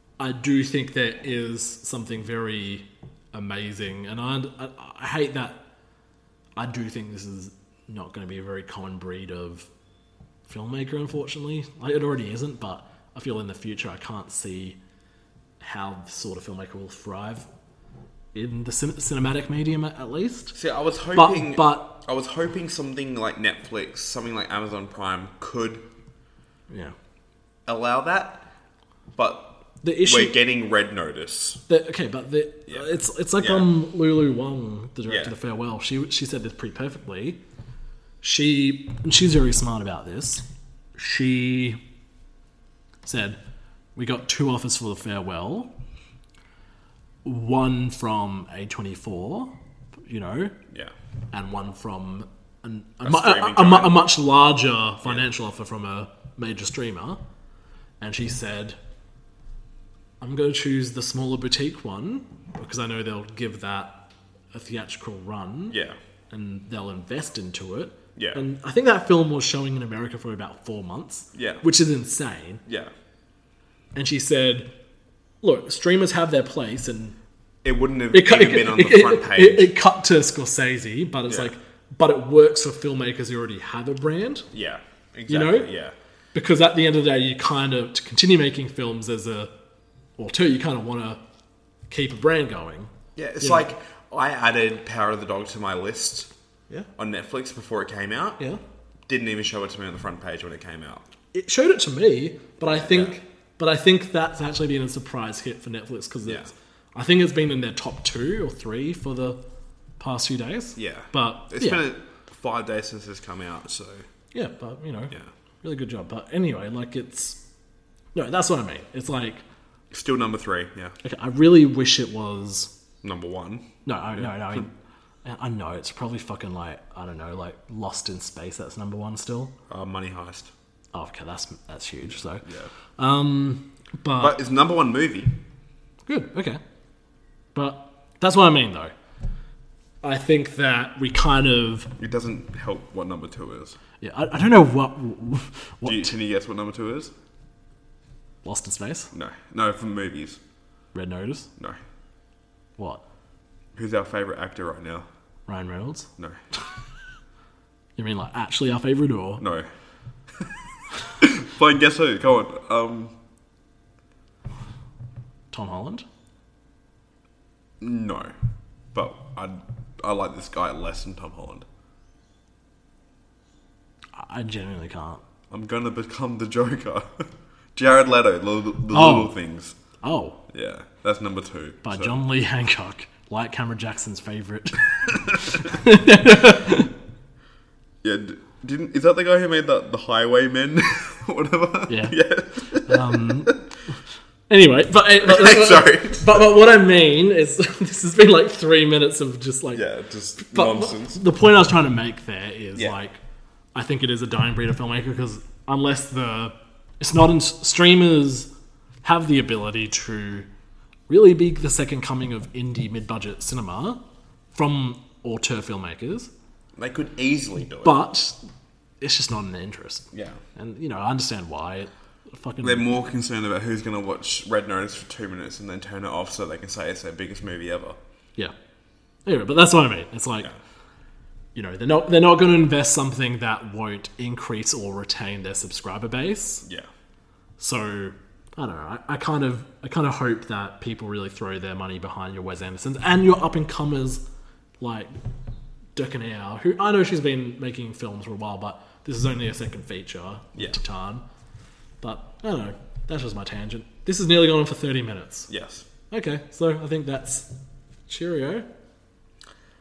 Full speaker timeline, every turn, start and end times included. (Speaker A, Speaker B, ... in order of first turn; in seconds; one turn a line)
Speaker A: 0.2-5.6
Speaker A: 6.5-9.7
Speaker A: 10.4-14.8
Speaker A: 15.6-17.5
Speaker A: 18.3-20.5
Speaker B: 20.5-25.9
Speaker A: 21.1-21.9
Speaker A: 26.7-26.9
Speaker B: 27.6-28.4
Speaker B: 29.1-31.6
Speaker A: 29.8-30.4
Speaker A: 31.7-37.4
Speaker B: 32.7-33.7
Speaker B: 35.0-35.3
Speaker A: 38.2-40.4
Speaker A: 41.0-41.8
Speaker A: 43.0-43.4
Speaker A: 44.0-45.7
Speaker A: 47.2-50.5
Speaker A: 51.3-57.2
Speaker B: 53.0-54.0
Speaker A: 58.0-58.8
Speaker A: 60.2-65.8
Speaker B: 65.7-66.0
Speaker A: 66.3-72.6
Speaker B: 68.2-68.4
Speaker B: 71.3-71.6
Speaker B: 72.7-72.9
Speaker A: 73.9-74.7
Speaker A: 75.4-77.2
Speaker B: 77.6-79.7
Speaker A: 78.1-84.5
Speaker B: 81.3-81.5
Speaker B: 84.5-85.9
Speaker A: 85.3-85.7
Speaker A: 86.3-89.5
Speaker A: 90.2-91.2
Speaker A: 91.9-93.7
Speaker B: 93.2-96.3
Speaker B: 97.0-98.4
Speaker B: 99.1-101.0
Speaker A: 101.3-109.4
Speaker B: 102.7-103.2
Speaker B: 106.2-106.5
Speaker A: 110.0-111.8
Speaker B: 110.8-114.0
Speaker A: 114.3-117.4
Speaker A: 118.1-119.4
Speaker B: 119.9-121.0
Speaker A: 121.0-122.7
Speaker B: 123.0-124.6
Speaker A: 123.8-124.7
Speaker A: 125.2-129.5
Speaker B: 129.7-130.5
Speaker A: 130.9-134.4
Speaker B: 134.2-135.3
Speaker A: 136.1-136.6
Speaker A: 137.5-138.9
Speaker A: 140.0-141.9
Speaker B: 142.0-143.8
Speaker A: 144.0-146.1
Speaker B: 145.8-147.1
Speaker A: 148.4-149.1
Speaker B: 149.1-150.4
Speaker A: 150.9-151.5
Speaker A: 152.8-153.0
Speaker B: 153.7-155.1
Speaker A: 155.5-156.1
Speaker A: 158.0-159.4
Speaker B: 159.4-159.7
Speaker B: 160.4-163.1
Speaker A: 165.5-166.0
Speaker B: 167.8-168.3
Speaker B: 168.9-171.7
Speaker A: 174.2-175.2
Speaker B: 175.5-179.8
Speaker A: 178.9-179.3
Speaker A: 180.0-180.4
Speaker B: 180.5-182.2
Speaker A: 181.8-186.9
Speaker B: 185.1-185.4
Speaker B: 188.0-193.6
Speaker A: 191.9-192.2
Speaker A: 192.7-193.6
Speaker A: 194.5-199.8
Speaker B: 195.2-196.4
Speaker B: 199.7-201.2
Speaker A: 200.4-203.2
Speaker A: 203.7-208.5
Speaker A: 209.0-210.5
Speaker A: 211.1-214.0
Speaker A: 214.5-216.3
Speaker B: 216.8-218.0
Speaker A: 217.8-218.4
Speaker A: 219.0-222.9
Speaker B: 220.1-220.4
Speaker B: 222.6-228.0
Speaker A: 229.2-230.5
Speaker A: 231.5-236.6
Speaker A: 237.6-244.2
Speaker A: 244.8-245.1
Speaker A: 245.9-251.2
Speaker A: 252.0-255.5
Speaker B: 255.5-255.8
Speaker A: 256.1-257.5
Speaker A: 258.1-258.6